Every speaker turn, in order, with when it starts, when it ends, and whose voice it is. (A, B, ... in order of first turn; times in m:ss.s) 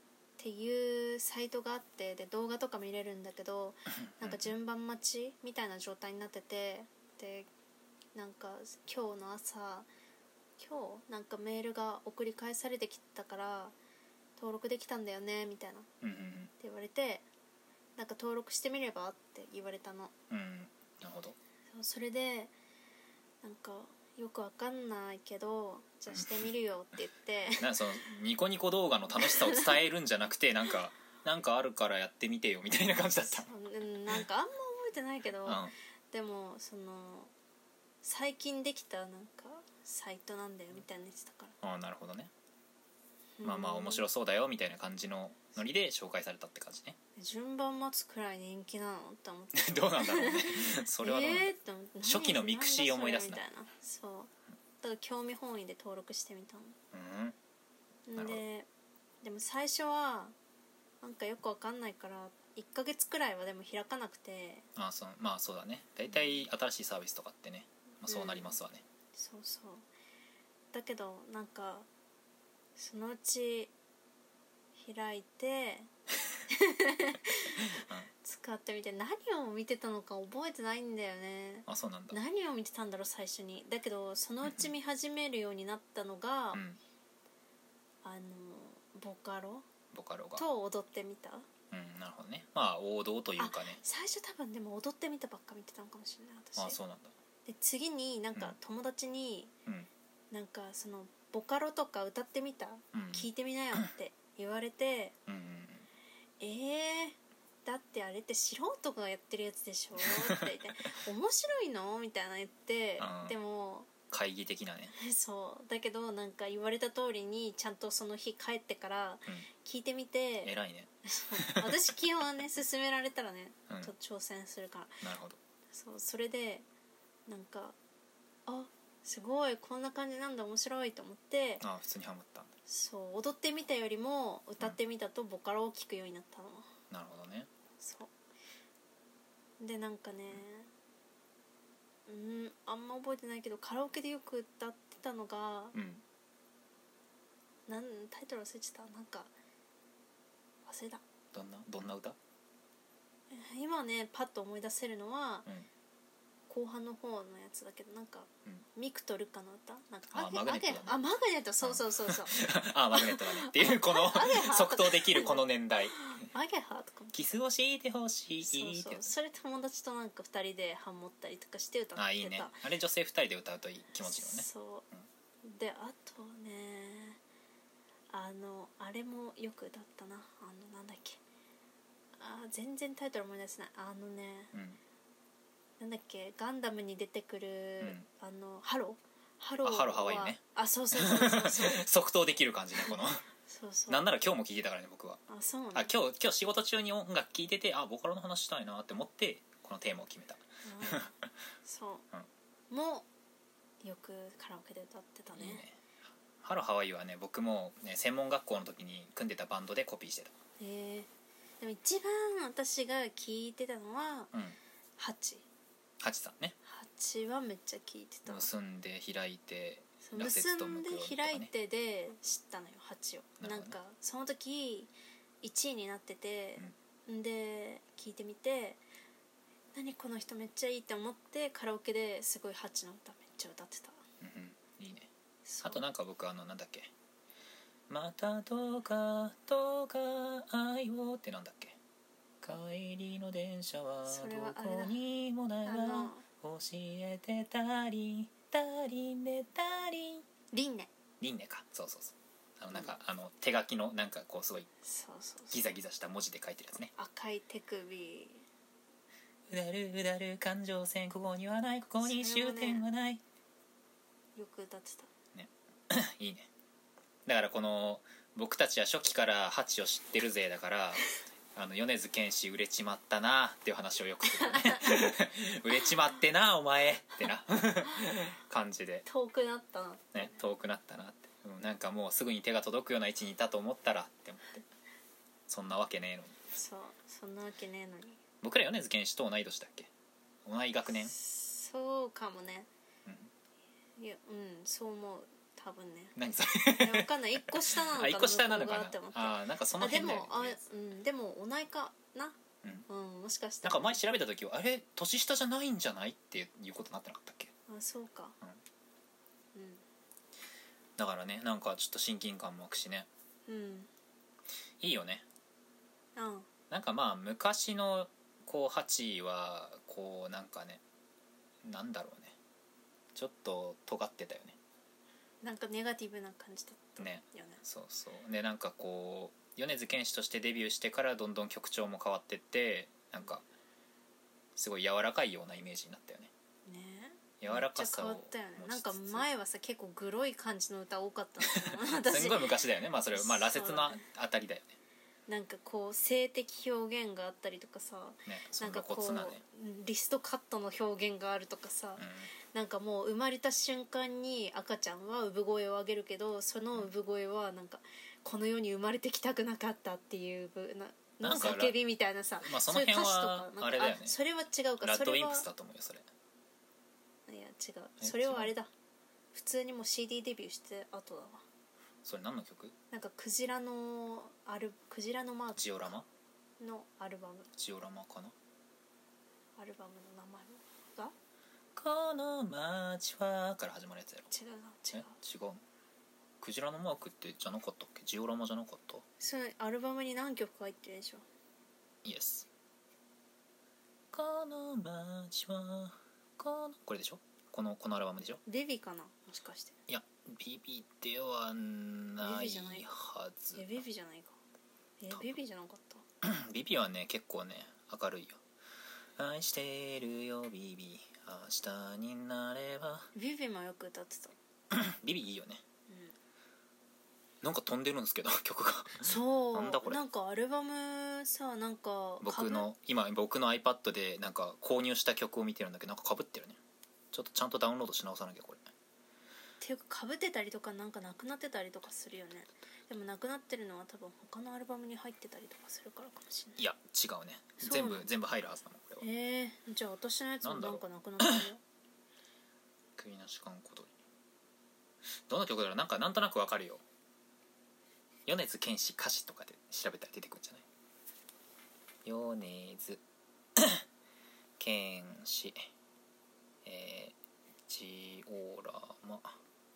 0:00.4-0:07.5 A
0:04.2-0:04.5 B
0:08.2-0:09.9 A
0:10.6-0:13.8 A
0:14.4-0:15.9 A
0:16.0-0:16.5 B
0:16.6-0:17.2 A
0:18.0-0:20.1 A
0:20.3-0:21.4 B
0:21.7-0:22.5 A
0:23.4-0:27.8 A
0:26.1-0:26.5 B
0:27.5-0:33.5 B
0:29.2-0:29.8 A
0:33.3-0:37.3 A
0:35.4-0:35.7 B
0:38.0-0:41.6 A
0:41.6-0:42.3 B
0:43.4-0:44.1 A
0:43.4-0:47.0 B
0:47.2-0:54.3 A
0:49.5-0:53.4 B
0:54.8-0:56.8 A
0:56.9-0:57.4 B
0:58.1-0:58.7 A
0:58.2-0:58.4 B
0:59.2-1:00.4 A
1:01.0-1:04.7 A
1:04.8-1:08.8 B
1:08.0-1:08.6 A
1:09.1-1:09.9 A
1:10.7-1:11.9 A
1:12.8-1:13.7 A
1:14.8-1:15.9 A
1:16.5-1:26.6 A
1:17.6-1:18.1 B
1:21.7-1:22.2 B
1:24.4-1:24.7 B
1:26.5-1:26.8 B
1:28.0-1:29.6 A
1:29.9-1:30.4 B
1:30.4-1:31.5 A
1:31.7-1:33.8 B
1:33.4-1:36.8 A
1:36.6-1:37.1 B
1:37.4-1:39.5 A
1:40.3-1:45.2 A
1:42.9-1:43.8 B
1:45.2-1:45.9 B
1:46.4-1:53.9 A
1:50.0-1:50.4 B
1:53.0-1:53.4 B
1:54.1-1:54.9 B
1:54.9-2:00.5 A
2:00.4-2:01.9 B
2:01.1-2:05.0 A
2:05.0-2:05.4 B
2:05.7-2:06.7 A
2:07.3-2:07.8 A
2:08.5-2:11.6 A
2:11.6-2:12.5 B
2:12.7-2:16.7 A
2:16.9-2:17.5 B
2:17.8-2:18.1 A
2:19.6-2:20.7 A
2:22.1-2:25.8 A
2:25.7-2:26.0 B
2:27.7-2:29.3 A
2:30.6-2:31.0 A
2:31.3-2:32.2 B
2:33.3-2:35.5 A
2:36.5-2:47.2 A
2:40.1-2:41.0 B
2:41.6-2:46.0 B
2:47.1-2:49.1 B
2:48.4-2:52.6 A
2:52.0-2:55.0 B
2:54.0-2:54.8 A
2:55.4-2:57.2 A
2:58.1-3:01.2 A
3:02.2-3:04.5 A
3:04.5-3:04.8 B
3:05.8-3:11.8 A
3:07.8-3:08.1 B
3:09.6-3:10.4 B
3:10.9-3:13.2 B
3:12.9-3:14.1 A
3:13.9-3:15.2 B
3:15.3-3:15.9 A
3:15.7-3:21.3 B
3:20.6-3:22.0 A
3:22.7-3:23.1 A
3:23.8-3:25.6 A
3:25.3-3:25.8 B
3:26.4-3:30.3 B
3:30.6-3:34.3 A
3:34.3-3:34.6 B
3:35.0-3:35.4 A
3:36.0-3:36.6 B
3:36.6-3:38.5 A
3:38.3-3:41.5 B
3:40.0-3:44.9 A
3:43.4-3:43.8 B
3:45.4-3:48.8 A
3:49.8-3:54.0 A
3:54.2-3:55.1 B
3:55.4-3:55.8 A
3:55.6-3:56.9 B
3:57.9-4:01.8 B
4:02.4-4:10.2 B
4:04.1-4:05.0 A
4:05.6-4:06.2 A
4:10.5-4:10.9 A
4:11.2-4:14.7 B
4:14.8-4:15.7 A
4:15.5-4:16.9 B
4:16.9-4:18.4 A
4:19.5-4:23.2 B
4:22.0-4:22.8 A
4:24.4-4:25.1 A
4:25.3-4:26.5 B
4:27.2-4:39.0 B
4:34.2-4:35.2 A
4:35.7-4:36.0 A
4:39.1-4:40.4 A
4:40.1-4:44.6 B
4:45.5-4:46.4 B
4:46.5-4:48.2 A
4:48.4-4:49.9 B
4:50.4-4:51.1 B
4:51.0-4:52.7 A
4:53.1-4:53.3 B
4:54.0-5:04.0 A
4:56.2-5:00.6 B
5:03.6-5:07.5 B
5:07.7-5:08.4 A
5:09.6-5:09.8 A
5:11.0-5:13.1 B
5:13.5-5:13.9 A
5:14.8-5:15.2 B
5:16.2-5:16.5 A
5:16.7-5:20.8 B
5:21.6-5:22.4 B
5:23.1-5:24.6 B
5:25.4-5:27.6 A
5:27.0-5:33.4 B
5:34.6-5:36.3 B
5:36.7-5:42.6 A
5:37.4-5:39.2 B
5:41.7-5:44.8 B
5:43.1-5:44.0 A
5:45.3-6:05.5 A
5:48.3-5:49.4 B
5:52.0-5:52.3 B
6:01.2-6:01.8 B
6:02.4-6:04.2 B
6:04.8-6:06.1 B
6:07.3-6:08.7 A
6:08.0-6:08.5 B
6:09.3-6:11.4 A
6:12.0-6:12.7 B
6:12.9-6:15.7 A
6:15.6-6:16.1 B
6:16.6-6:17.5 A
6:17.6-6:18.3 B
6:19.6-6:21.2 A
6:21.7-6:24.3 B
6:24.3-6:25.2 A
6:24.9-6:25.6 B
6:26.4-6:29.0 B
6:29.2-6:31.2 A
6:32.0-6:32.5 B
6:34.1-6:38.4 B
6:38.4-6:39.8 A
6:39.9-6:43.8 B
6:42.2-6:42.9 A
6:43.6-6:44.4 A
6:45.0-6:46.0 A
6:45.1-6:45.4 B
6:46.2-6:48.4 B
6:49.2-6:53.1 B
6:53.1-6:54.3 A
6:54.7-6:55.6 B
6:55.9-6:56.2 A
6:57.4-7:00.0 B
6:59.0-7:02.7 A
7:02.2-7:06.6 B
7:07.1-7:08.6 B
7:09.6-7:16.6 A
7:16.6-7:19.0 B
7:17.6-7:18.1 A
7:19.0-7:21.6 A
7:20.4-7:21.4 B
7:23.0-7:23.9 B
7:25.3-7:26.8 B
7:28.3-7:30.7 B
7:32.0-7:33.0 B
7:33.6-7:33.8 B
7:34.6-7:35.7 B
7:36.6-7:37.2 B
7:37.7-7:39.4 B